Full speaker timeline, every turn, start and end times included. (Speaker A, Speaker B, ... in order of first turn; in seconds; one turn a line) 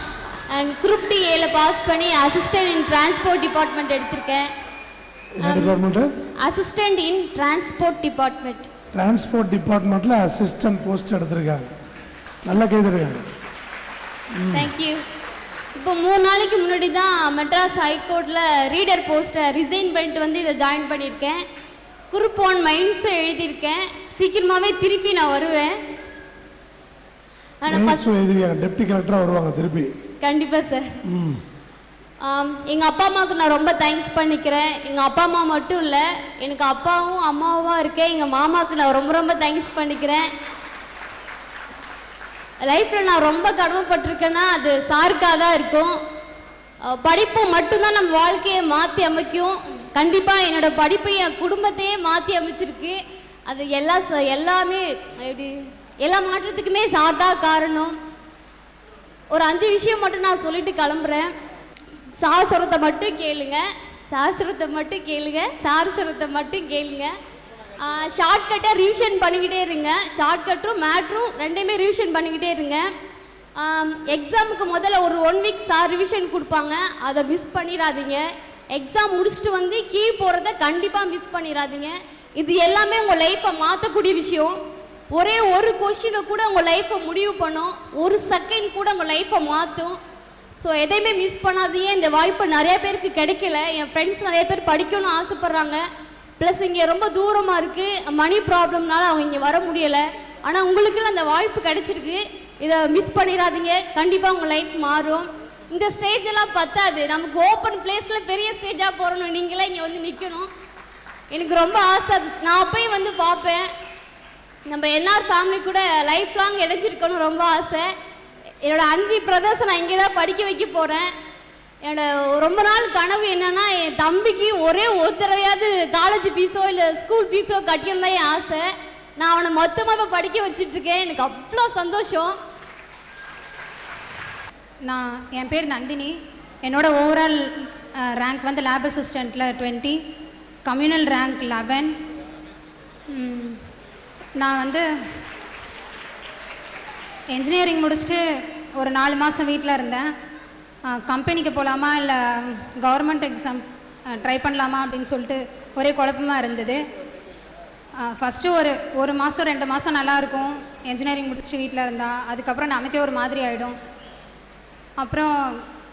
Speaker A: 0.5-4.5
Speaker B: 5.4-6.1
Speaker A: 5.4-5.8
Speaker A: 6.4-8.7
Speaker B: 8.9-11.7
Speaker B: 12.5-13.2
Speaker B: 14.4-14.7
Speaker A: 14.5-15.0
Speaker A: 15.8-21.4
Speaker A: 22.1-25.8
Speaker A: 27.6-28.1
Speaker B: 27.7-29.9
Speaker A: 30.2-30.9
Speaker B: 31.1-31.4
Speaker A: 32.2-40.3
Speaker A: 42.6-46.0
Speaker A: 46.9-58.0
Speaker A: 59.3-61.3
Speaker A: 62.2-67.1
Speaker A: 67.8-72.9
Speaker A: 73.6-84.6
Speaker A: 85.1-90.0
Speaker A: 90.6-95.8
Speaker A: 96.4-110.5
Speaker A: 111.3-113.7
Speaker A: 114.7-117.9
Speaker A: 118.6-121.1
Speaker A: 121.8-132.3
Speaker C: 134.9-140.0
Speaker C: 140.7-141.9
Speaker C: 143.1-143.6
Speaker C: 144.4-144.8
Speaker C: 147.3-148.2
Speaker C: 148.8-150.1
Speaker C: 150.9-156.8
Speaker C: 158.0-163.8
Speaker C: 165.0-165.6